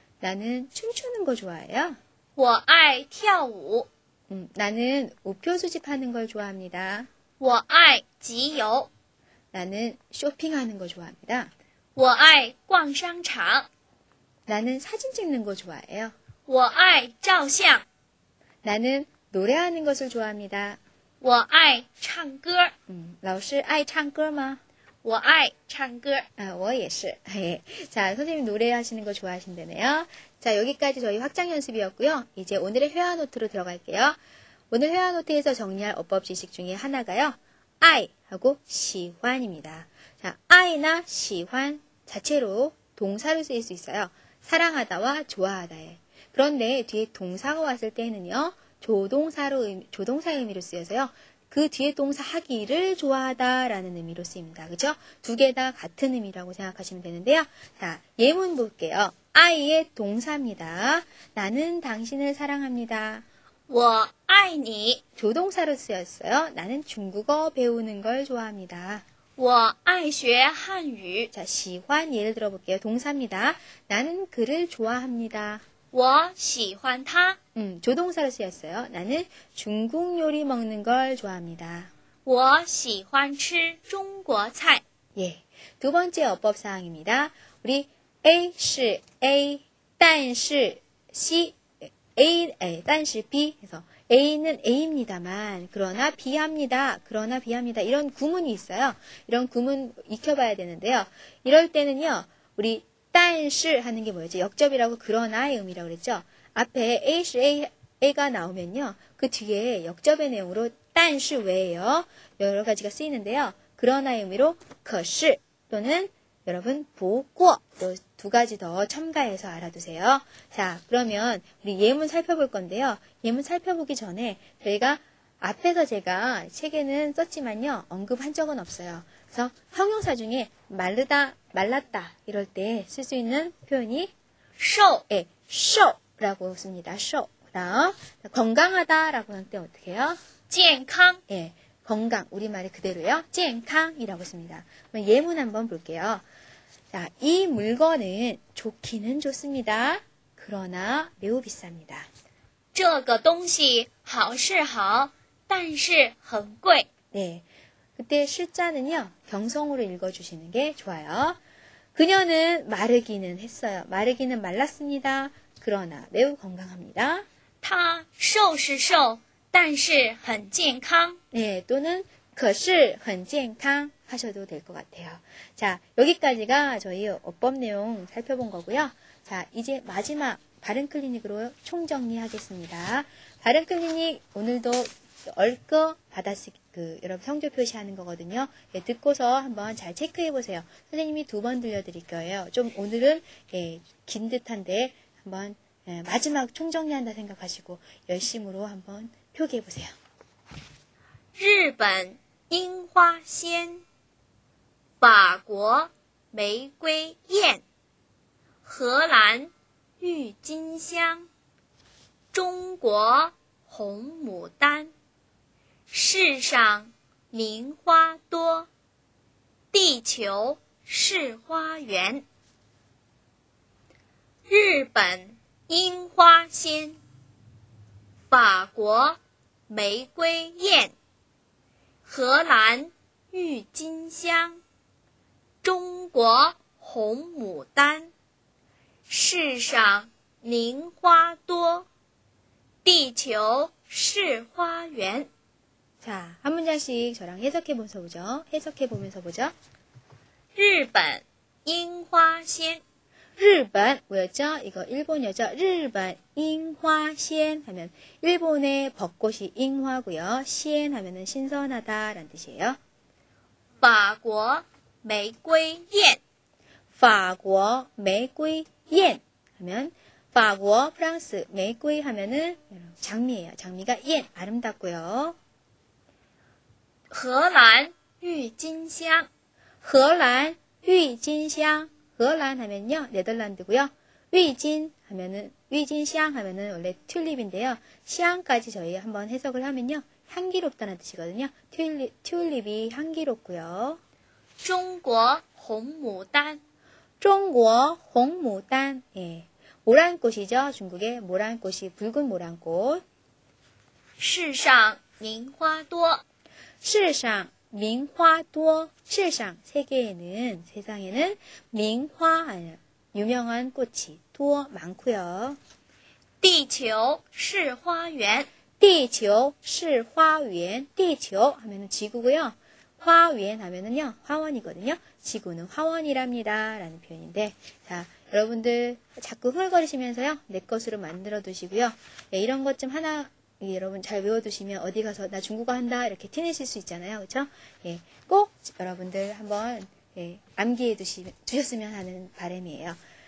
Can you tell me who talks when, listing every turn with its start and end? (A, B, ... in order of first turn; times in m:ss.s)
0:00.2-0:02.0 A
0:02.4-0:03.9 B
0:04.3-0:07.1 A
0:07.4-0:08.9 B
0:09.5-0:11.5 A
0:12.0-0:13.7 B
0:14.5-0:16.2 A
0:16.5-0:17.9 B
0:18.6-0:20.8 A
0:21.2-0:22.7 B
0:22.9-0:24.6 A
0:25.0-0:26.3 B
0:26.4-0:34.2 A
0:34.7-1:03.2 A
1:03.7-1:05.0 B
1:05.2-1:09.0 A
1:09.4-1:11.3 B
1:11.3-1:15.6 A
1:15.9-1:17.4 B
1:17.6-1:21.9 A
1:22.2-1:24.8 B
1:25.2-2:14.1 A
2:14.6-2:15.0 B
2:15.1-2:20.2 A
2:20.5-2:21.2 B
2:21.3-2:26.2 A
2:26.9-2:32.1 A
2:32.7-2:36.9 B
2:37.1-2:37.4 A
2:38.0-2:41.4 A
2:42.0-2:47.2 A
2:47.6-2:51.2 B
2:51.3-3:19.9 A
3:21.4-3:23.8 B
3:25.0-3:27.6 B
3:28.6-3:31.3 B
3:32.3-3:34.9 B
3:35.9-3:38.7 B
3:39.7-3:42.2 B
3:44.5-3:47.0 B
3:48.3-3:50.9 B
3:52.0-3:54.6 B
3:55.6-3:58.1 B
3:59.1-4:01.9 B
4:02.8-4:05.3 B
4:06.0-4:09.5 A
4:10.6-4:12.8 B
4:13.4-4:22.8 A
4:23.8-4:26.2 B
4:27.0-4:35.4 A
4:37.1-4:39.3 B
4:39.8-4:54.0 A
4:54.6-4:56.6 B
4:57.2-5:03.0 A
5:04.2-5:06.2 B
5:06.8-5:15.6 A
5:16.4-5:18.5 B
5:18.8-5:43.0 A